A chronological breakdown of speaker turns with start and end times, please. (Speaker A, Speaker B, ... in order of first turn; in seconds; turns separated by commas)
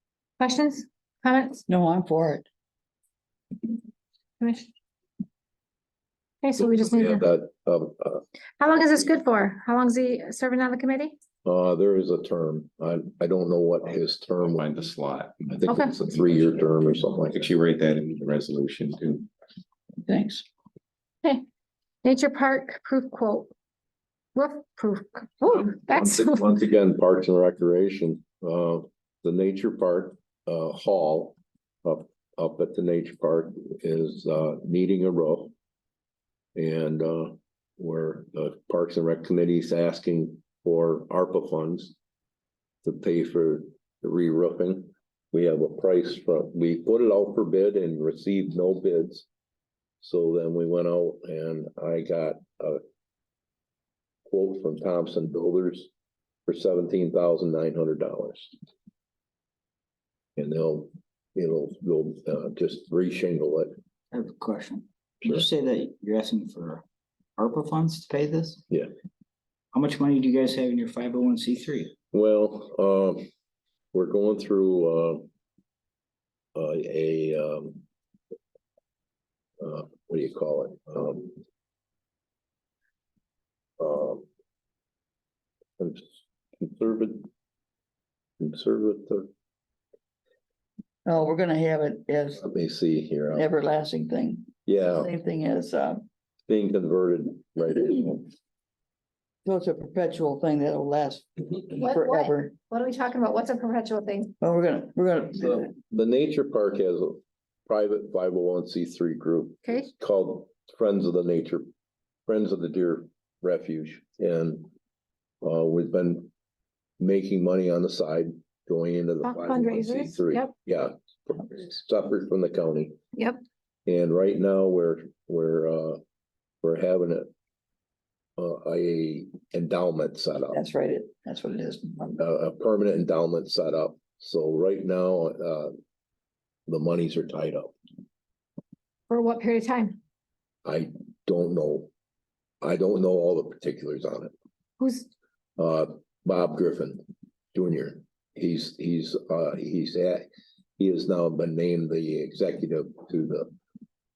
Speaker A: 0.4-1.6, Speaker B: 1.7-2.5, Speaker A: 4.4-4.7, Speaker A: 6.4-7.2, Speaker C: 6.6-8.2, Speaker A: 8.6-11.1, Speaker C: 11.4-14.7, Speaker D: 14.6-15.3, Speaker C: 15.5-17.5, Speaker A: 15.7-15.9, Speaker D: 17.5-19.2, Speaker B: 20.1-20.4, Speaker A: 22.0-23.5, Speaker A: 24.4-26.4, Speaker C: 25.5-35.5, Speaker C: 36.6-42.0, Speaker C: 42.8-49.3, Speaker C: 50.0-52.8, Speaker C: 54.3-55.9, Speaker C: 56.5-58.5, Speaker C: 60.4-63.7, Speaker E: 64.1-66.8, Speaker E: 67.4-68.6, Speaker E: 69.7-71.9, Speaker C: 72.1-73.3, Speaker C: 73.9-75.3, Speaker C: 76.5-77.8, Speaker C: 79.6-81.4, Speaker C: 83.8-84.3, Speaker C: 85.8-87.3, Speaker C: 88.4-89.3, Speaker B: 91.1-92.4, Speaker C: 92.4-93.5, Speaker B: 93.3-96.1, Speaker C: 94.7-95.1, Speaker C: 96.5-98.3, Speaker B: 99.5-102.5, Speaker A: 101.8-104.3, Speaker B: 104.4-105.7, Speaker C: 105.4-111.7, Speaker C: 112.3-114.7, Speaker C: 115.4-116.3, Speaker C: 117.0-123.0, Speaker A: 119.2-120.5, Speaker A: 123.2-123.4, Speaker C: 123.9-126.0, Speaker C: 126.6-127.3, Speaker C: 128.4-130.6, Speaker B: 130.5-132.2, Speaker C: 132.2-135.7, Speaker C: 136.7-137.7, Speaker A: 139.1-140.0, Speaker C: 140.7-141.9, Speaker C: 142.6-144.3, Speaker A: 144.8-145.1, Speaker C: 145.6-150.3, Speaker C: 150.8-153.5